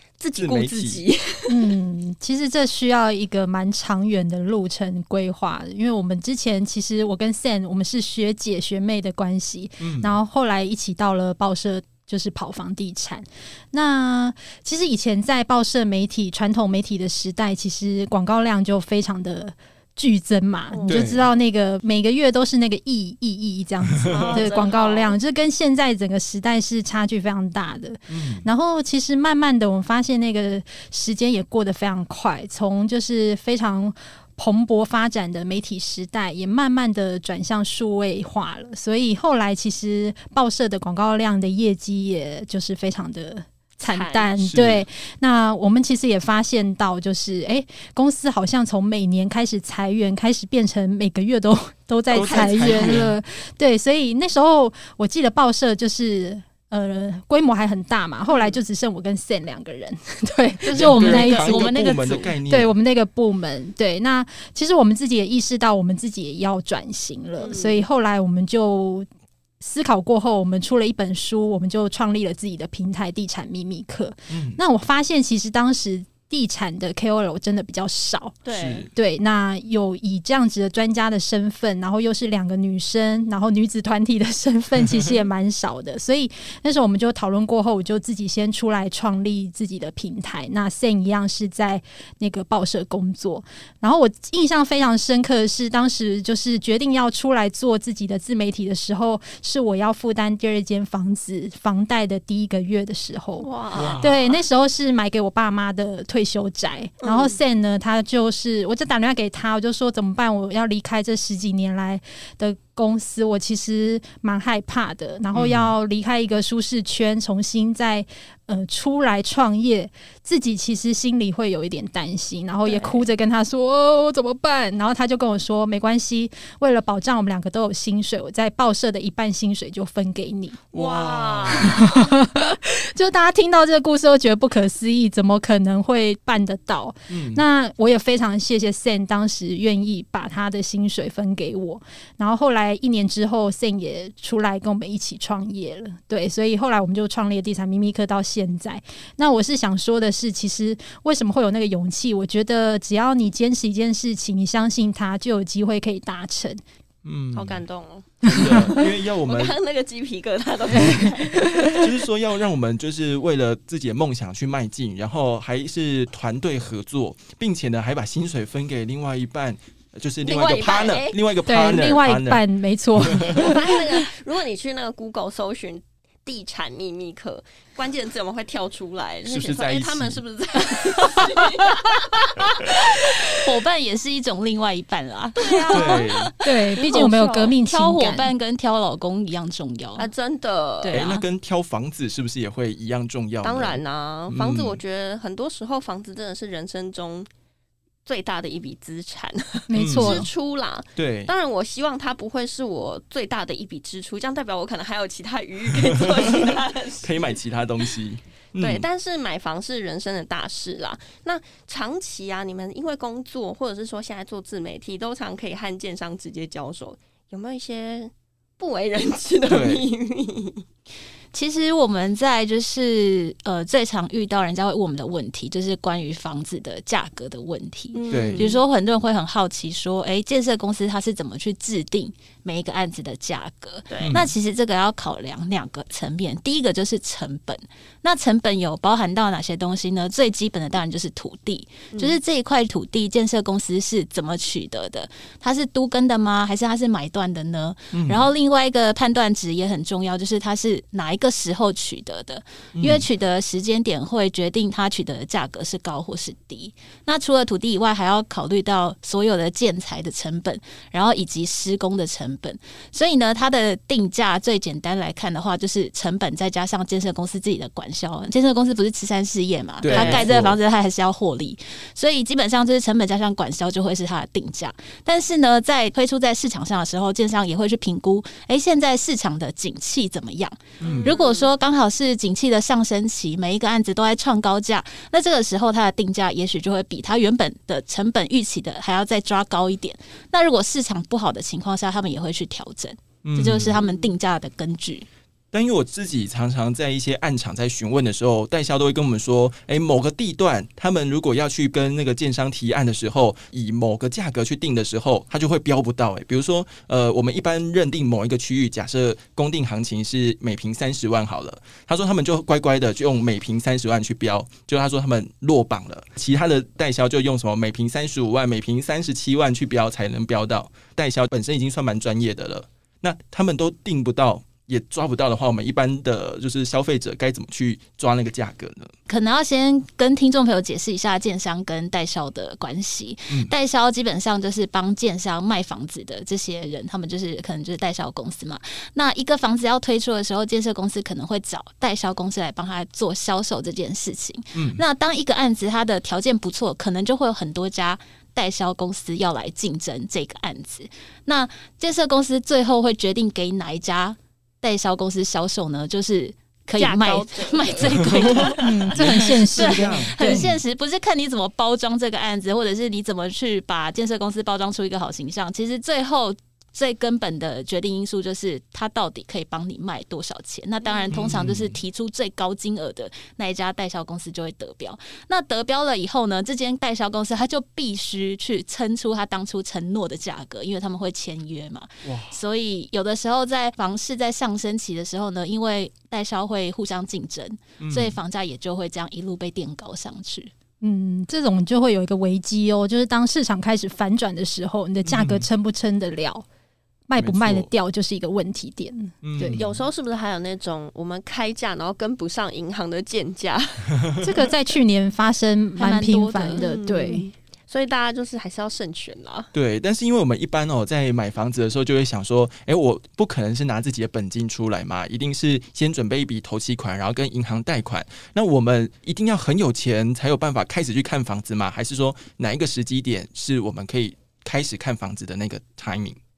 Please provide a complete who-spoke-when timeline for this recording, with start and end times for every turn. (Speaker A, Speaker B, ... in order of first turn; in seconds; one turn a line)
Speaker A: 0.2-1.7
Speaker B: 0.4-1.0
Speaker C: 1.5-61.9
Speaker B: 9.8-10.2
Speaker A: 20.7-21.2
Speaker B: 20.9-21.2
Speaker B: 24.1-24.4
Speaker A: 24.1-25.1
Speaker B: 28.1-28.5
Speaker A: 43.8-44.3
Speaker B: 44.4-44.9
Speaker B: 52.1-53.2
Speaker A: 52.1-53.0
Speaker A: 58.3-58.6
Speaker B: 60.7-62.7
Speaker D: 60.7-62.3
Speaker C: 62.5-69.1
Speaker A: 67.4-67.8
Speaker C: 69.6-78.4
Speaker B: 74.3-74.6
Speaker A: 78.4-78.8
Speaker B: 78.5-78.9
Speaker C: 78.9-130.6
Speaker A: 103.4-104.4
Speaker B: 103.7-104.2
Speaker A: 107.0-107.4
Speaker B: 115.3-115.7
Speaker A: 122.7-123.1
Speaker B: 130.7-131.9
Speaker A: 130.7-132.0
Speaker C: 131.5-156.6
Speaker B: 137.1-137.4
Speaker B: 157.0-157.6
Speaker A: 157.3-161.9
Speaker B: 158.2-159.6
Speaker C: 158.2-158.6
Speaker C: 160.7-161.1
Speaker B: 160.7-161.0
Speaker B: 161.7-172.4
Speaker A: 170.2-171.2
Speaker C: 171.4-173.8
Speaker B: 172.9-173.6
Speaker A: 173.3-183.3
Speaker B: 179.3-180.2
Speaker D: 183.3-186.1
Speaker A: 185.4-187.6
Speaker B: 185.7-186.3
Speaker C: 186.4-188.3
Speaker D: 187.6-190.1
Speaker A: 190.0-191.0
Speaker D: 190.8-191.2
Speaker B: 190.9-194.8
Speaker A: 193.4-197.3
Speaker A: 198.1-207.3
Speaker C: 199.7-200.3
Speaker B: 199.8-200.3
Speaker B: 200.9-201.3
Speaker B: 205.9-208.8
Speaker A: 208.6-220.6
Speaker B: 219.5-219.8
Speaker D: 221.3-295.1
Speaker A: 227.9-228.6
Speaker B: 228.1-228.5
Speaker A: 233.9-234.2
Speaker B: 234.0-234.3
Speaker A: 241.9-242.2
Speaker B: 247.9-248.2
Speaker B: 252.7-253.1
Speaker B: 269.8-270.6
Speaker A: 269.9-270.3
Speaker B: 280.8-281.1
Speaker A: 280.8-281.5
Speaker B: 293.2-293.8
Speaker B: 295.5-328.9
Speaker D: 329.1-390.5
Speaker B: 344.5-344.8
Speaker A: 356.8-358.7
Speaker C: 358.6-360.4
Speaker B: 358.9-360.6
Speaker A: 370.8-371.1
Speaker B: 371.1-371.8
Speaker B: 382.0-382.4
Speaker B: 387.8-388.2
Speaker C: 390.8-396.4
Speaker B: 395.0-395.5
Speaker C: 397.1-399.6
Speaker B: 397.2-397.7
Speaker B: 399.2-399.8
Speaker A: 399.5-404.2
Speaker C: 404.2-407.3
Speaker D: 405.8-406.6
Speaker A: 406.6-409.5
Speaker B: 409.5-426.2